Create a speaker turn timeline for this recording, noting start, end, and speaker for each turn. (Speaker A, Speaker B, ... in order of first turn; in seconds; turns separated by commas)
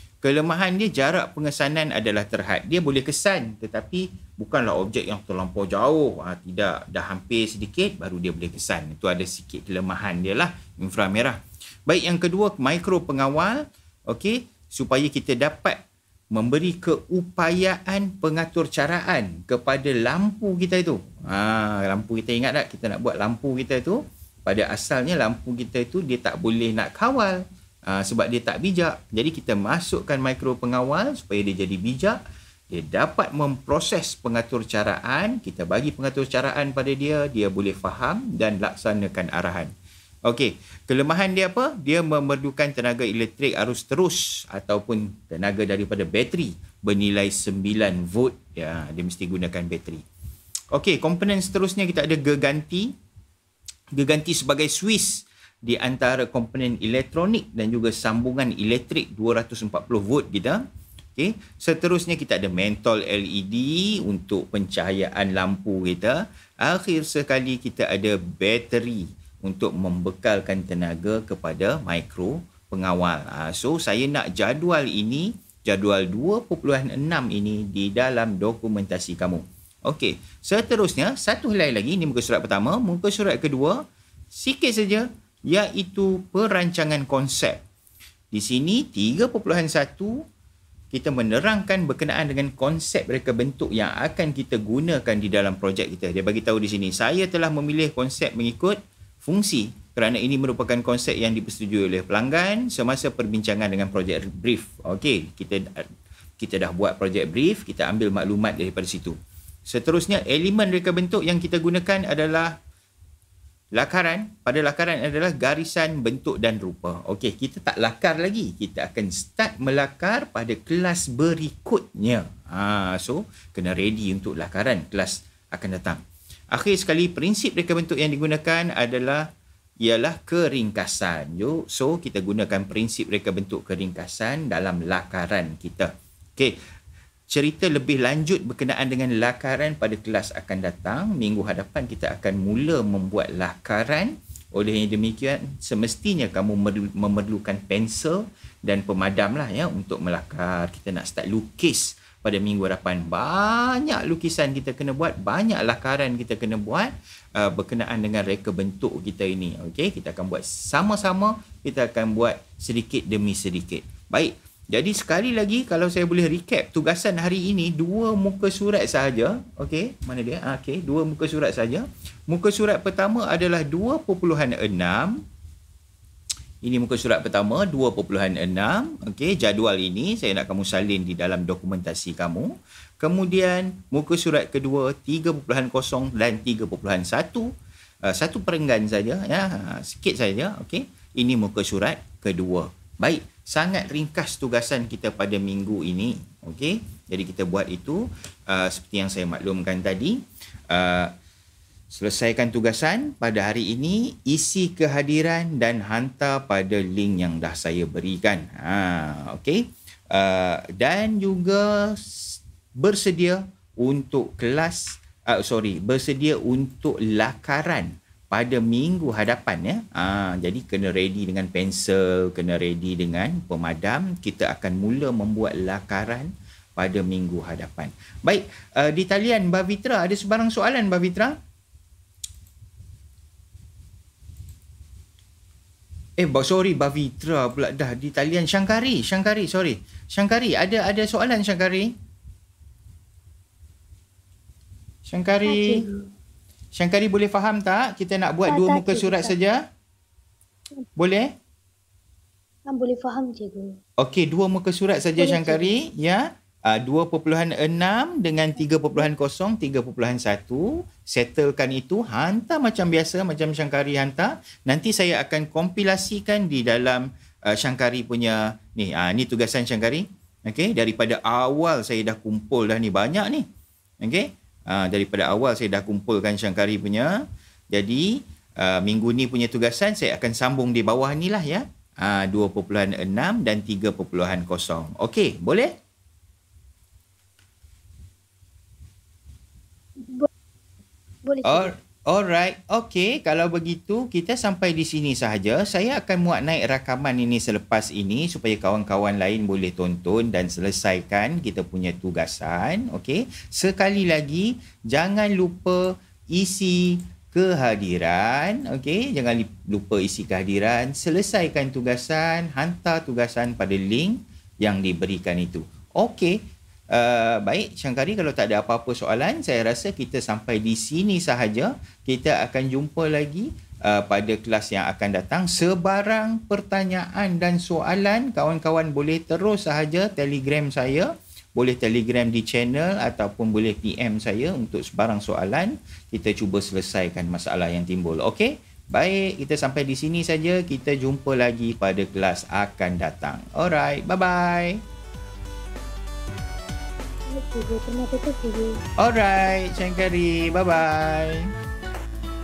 Speaker A: 0.2-32.2, Speaker A: 32.7-39.7, Speaker A: 40.2-50.0, Speaker A: 50.7-52.9, Speaker A: 53.9-60.6, Speaker A: 61.1-87.6, Speaker A: 88.3-90.2, Speaker A: 90.9-105.9, Speaker A: 106.4-109.2, Speaker A: 109.7-112.5, Speaker A: 113.7-129.2, Speaker A: 129.8-136.6, Speaker A: 137.3-175.2, Speaker A: 176.6-187.5, Speaker A: 188.0-201.1, Speaker A: 201.9-231.4, Speaker A: 236.2-241.9, Speaker A: 245.1-245.8, Speaker B: 245.5-246.1, Speaker A: 246.7-249.6, Speaker B: 248.5-249.3, Speaker A: 251.0-251.3, Speaker B: 252.7-253.7, Speaker A: 254.0-273.5, Speaker B: 255.2-255.7, Speaker A: 274.0-285.7, Speaker B: 290.0-290.3, Speaker B: 291.2-291.7, Speaker A: 291.4-344.8, Speaker B: 347.3-348.8, Speaker A: 349.0-351.5